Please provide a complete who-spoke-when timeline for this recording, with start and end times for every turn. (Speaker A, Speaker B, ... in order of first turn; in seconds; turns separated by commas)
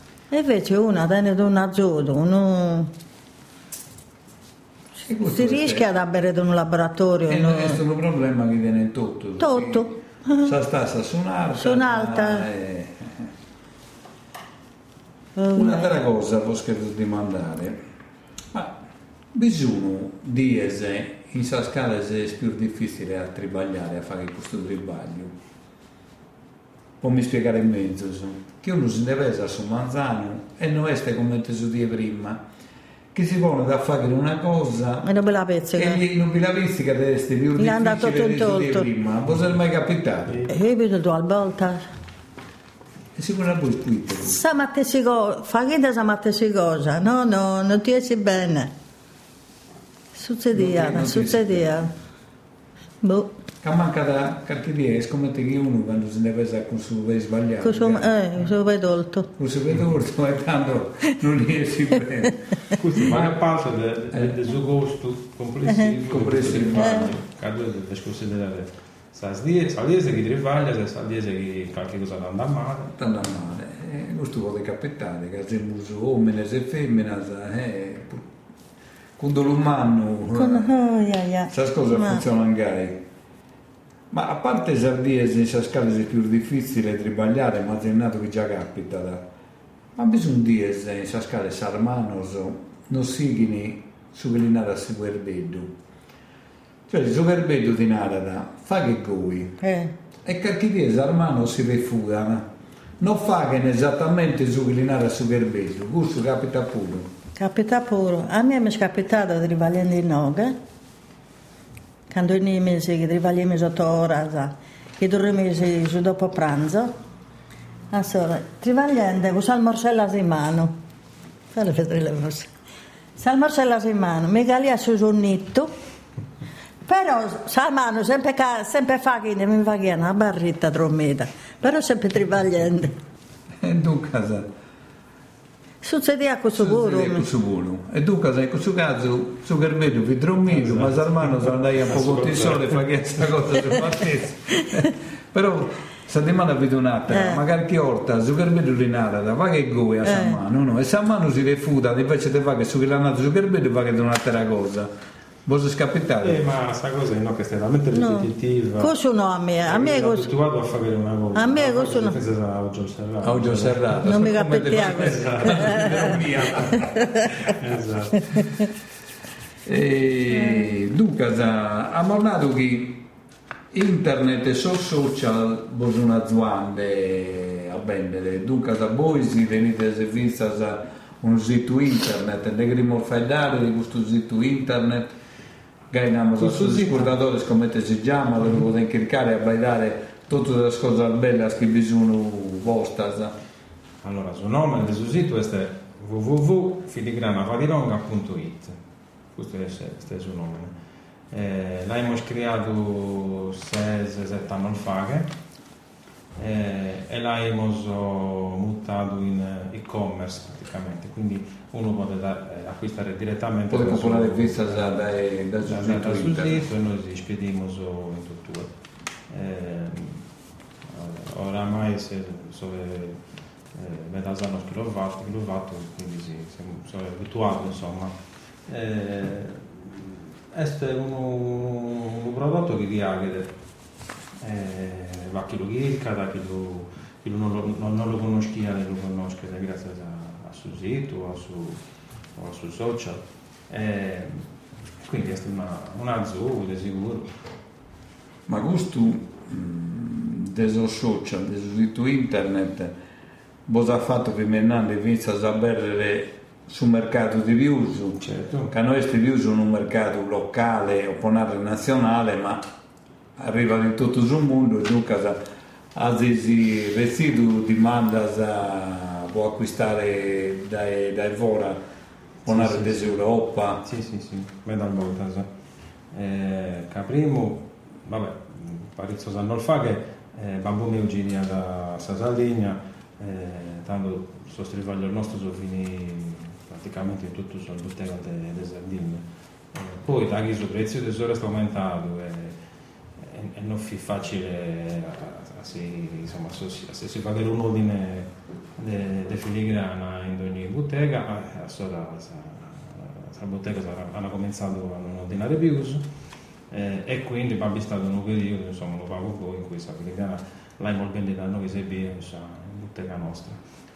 Speaker A: 0.3-2.9, Speaker B: 5.1-5.9, Speaker A: 5.2-7.8, Speaker B: 7.3-9.9, Speaker A: 9.4-10.5, Speaker B: 10.4-13.3, Speaker A: 11.5-12.5, Speaker A: 15.4-16.0, Speaker B: 15.5-17.8, Speaker B: 19.3-25.3, Speaker B: 27.0-32.4, Speaker B: 33.1-35.1, Speaker A: 35.0-36.0, Speaker B: 35.7-40.4, Speaker A: 37.6-38.9, Speaker A: 40.5-41.9, Speaker B: 43.2-44.4, Speaker A: 44.2-48.7, Speaker A: 50.1-51.9, Speaker B: 50.5-51.9, Speaker A: 53.0-53.3, Speaker B: 53.6-58.1, Speaker A: 57.6-59.3, Speaker B: 59.4-63.4, Speaker C: 62.8-73.0, Speaker B: 66.0-67.2, Speaker A: 66.8-67.1, Speaker B: 73.0-78.3, Speaker B: 79.2-80.7, Speaker A: 80.3-82.2, Speaker B: 81.5-83.0, Speaker B: 84.1-89.2, Speaker B: 90.0-95.7, Speaker B: 96.9-99.6, Speaker A: 99.6-99.9, Speaker B: 100.2-102.5, Speaker B: 103.0-107.1, Speaker A: 107.4-110.6, Speaker A: 112.1-116.9, Speaker A: 117.9-120.8, Speaker A: 121.5-122.5, Speaker A: 123.2-125.7, Speaker A: 126.9-132.9, Speaker B: 133.6-134.5, Speaker A: 135.8-137.3, Speaker B: 136.6-154.9, Speaker C: 140.5-142.8, Speaker A: 144.5-144.9, Speaker A: 147.1-147.4, Speaker A: 150.0-150.4, Speaker B: 155.5-156.5, Speaker C: 156.2-158.9, Speaker A: 157.9-160.3, Speaker C: 159.7-166.6, Speaker A: 161.3-162.2, Speaker B: 163.2-167.5, Speaker A: 164.0-166.2, Speaker A: 166.7-167.3, Speaker C: 167.4-168.5, Speaker B: 169.7-173.1, Speaker B: 173.7-185.1, Speaker B: 185.9-193.3, Speaker C: 186.4-187.1, Speaker C: 194.0-198.8, Speaker C: 199.4-200.7, Speaker C: 201.3-205.3, Speaker C: 206.4-215.1, Speaker B: 213.7-216.7, Speaker C: 215.7-218.7, Speaker C: 219.3-220.2, Speaker C: 220.9-223.2, Speaker C: 223.7-228.1, Speaker C: 228.7-233.5, Speaker C: 234.4-241.8, Speaker C: 242.4-244.4, Speaker C: 245.0-247.3, Speaker B: 248.5-252.9, Speaker B: 253.7-262.6, Speaker C: 258.2-258.7, Speaker B: 263.4-265.4, Speaker B: 265.9-271.8, Speaker C: 272.5-273.2, Speaker B: 272.5-273.8, Speaker C: 273.8-275.5, Speaker C: 276.1-292.6, Speaker C: 293.2-306.0, Speaker C: 306.7-313.6